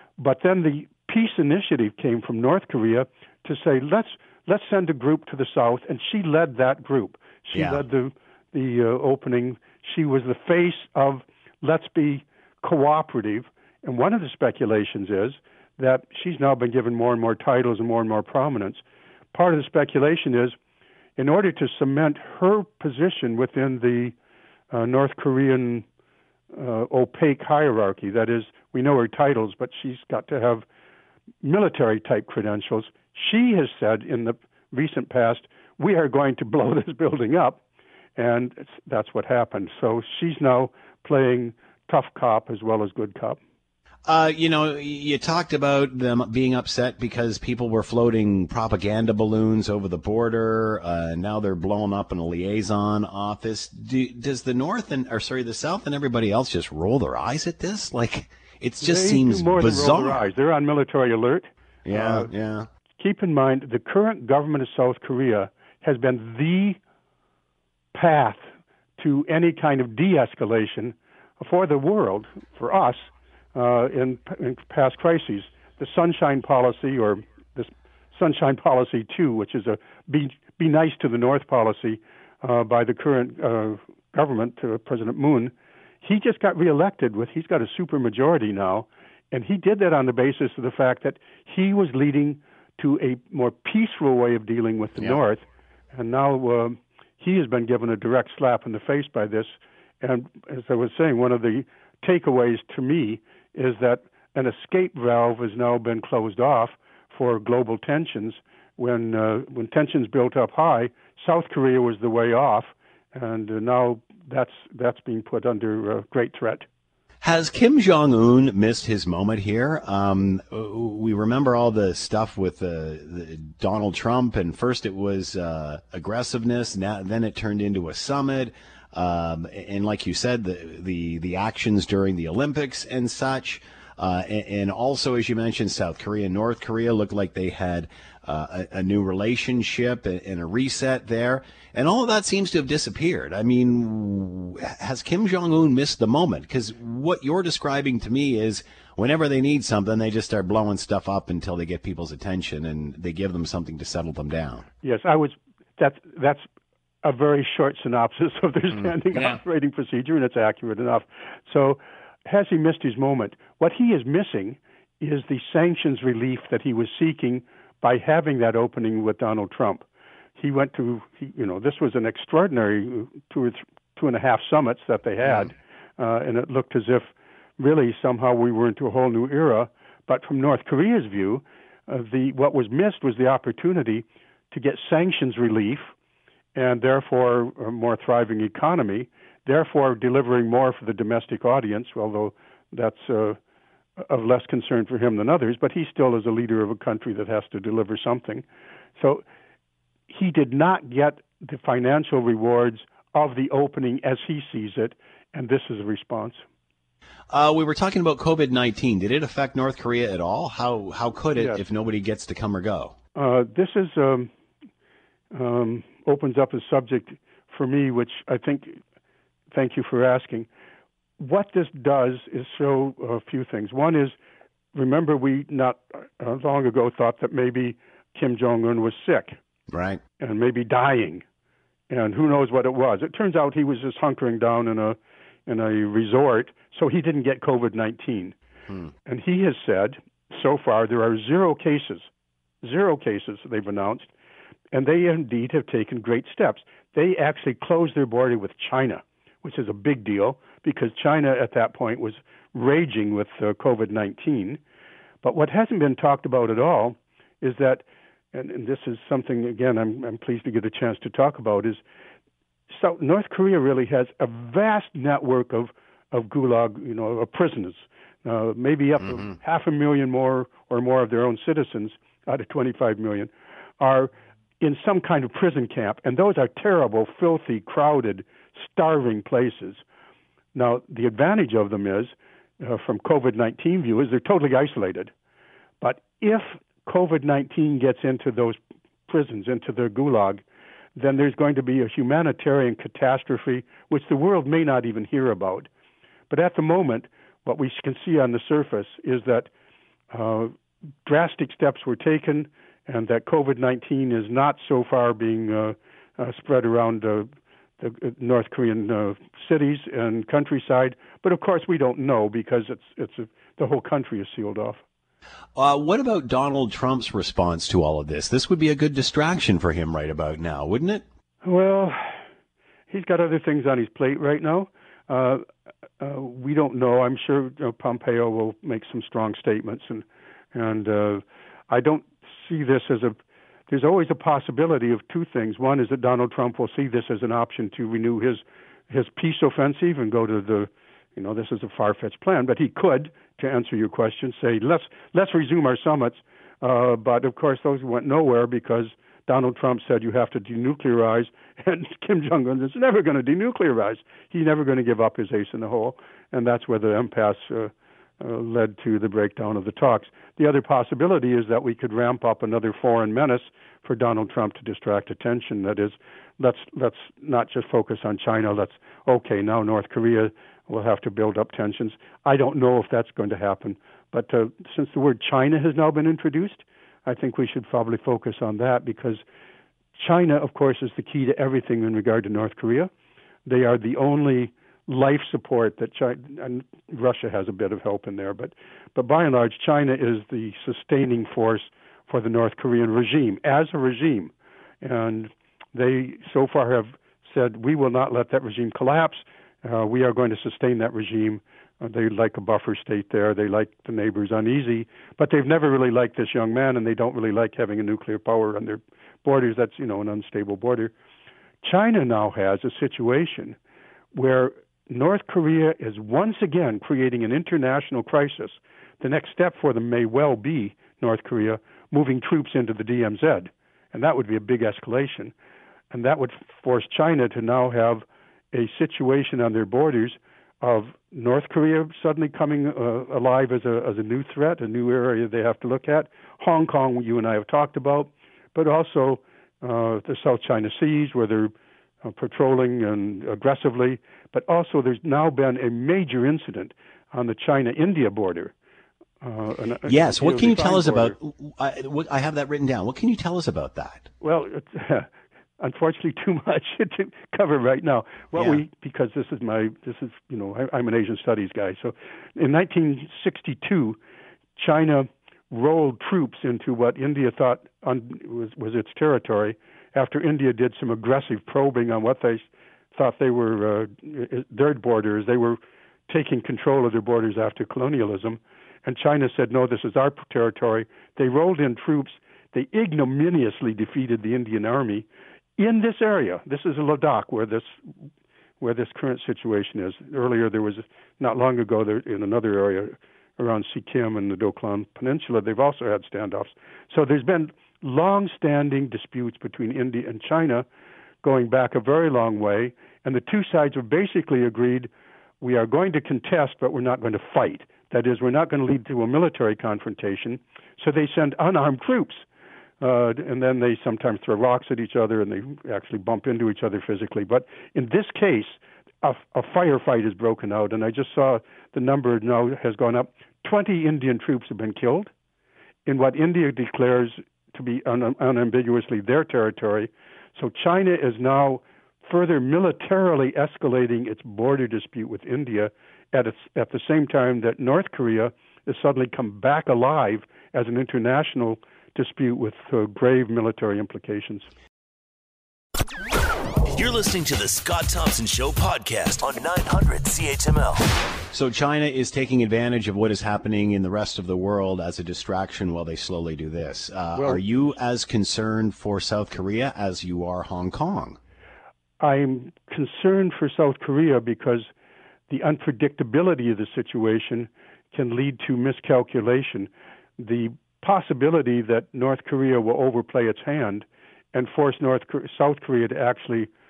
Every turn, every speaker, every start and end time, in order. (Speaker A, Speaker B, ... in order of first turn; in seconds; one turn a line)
Speaker A: 0.2-20.6
Speaker B: 7.5-7.8
Speaker A: 21.2-24.2
Speaker A: 24.7-25.9
Speaker A: 26.5-30.6
Speaker A: 31.4-37.6
Speaker A: 38.2-43.4
Speaker B: 44.1-60.2
Speaker A: 58.8-62.3
Speaker B: 61.9-62.7
Speaker A: 63.0-66.8
Speaker A: 67.9-68.4
Speaker A: 69.0-116.7
Speaker B: 117.2-154.7
Speaker A: 154.8-156.5
Speaker A: 157.0-169.8
Speaker A: 170.4-185.9
Speaker A: 186.6-193.4
Speaker A: 194.0-198.4
Speaker A: 199.0-199.2
Speaker A: 200.1-206.4
Speaker B: 207.3-212.9
Speaker A: 211.4-211.6
Speaker A: 213.2-214.3
Speaker A: 215.3-218.8
Speaker A: 219.5-220.5
Speaker A: 221.2-224.2
Speaker A: 224.7-229.4
Speaker B: 229.7-230.0
Speaker A: 230.2-231.2
Speaker A: 231.9-238.4
Speaker A: 239.1-242.1
Speaker A: 242.6-244.1
Speaker A: 244.7-254.6
Speaker A: 255.2-261.8
Speaker A: 262.7-279.8
Speaker A: 280.5-285.1
Speaker A: 285.8-290.4
Speaker A: 290.9-295.7
Speaker A: 296.3-299.5
Speaker A: 300.1-300.5
Speaker A: 301.1-314.8
Speaker B: 315.6-321.0
Speaker A: 321.4-322.2
Speaker A: 322.9-325.4
Speaker A: 326.0-333.2
Speaker A: 333.7-379.2
Speaker A: 380.0-382.9
Speaker A: 383.5-410.9
Speaker A: 411.6-413.6
Speaker A: 414.1-425.3
Speaker A: 425.9-441.5
Speaker A: 442.0-448.5
Speaker A: 449.2-451.2
Speaker B: 449.9-454.1
Speaker A: 454.2-455.1
Speaker A: 455.6-464.0
Speaker B: 458.3-458.6
Speaker A: 464.6-487.8
Speaker A: 488.6-500.7
Speaker A: 501.2-512.2
Speaker A: 512.8-525.1
Speaker A: 525.9-544.5
Speaker C: 546.7-550.9
Speaker B: 551.3-561.2
Speaker A: 557.2-557.4
Speaker A: 562.0-564.7
Speaker A: 565.3-576.5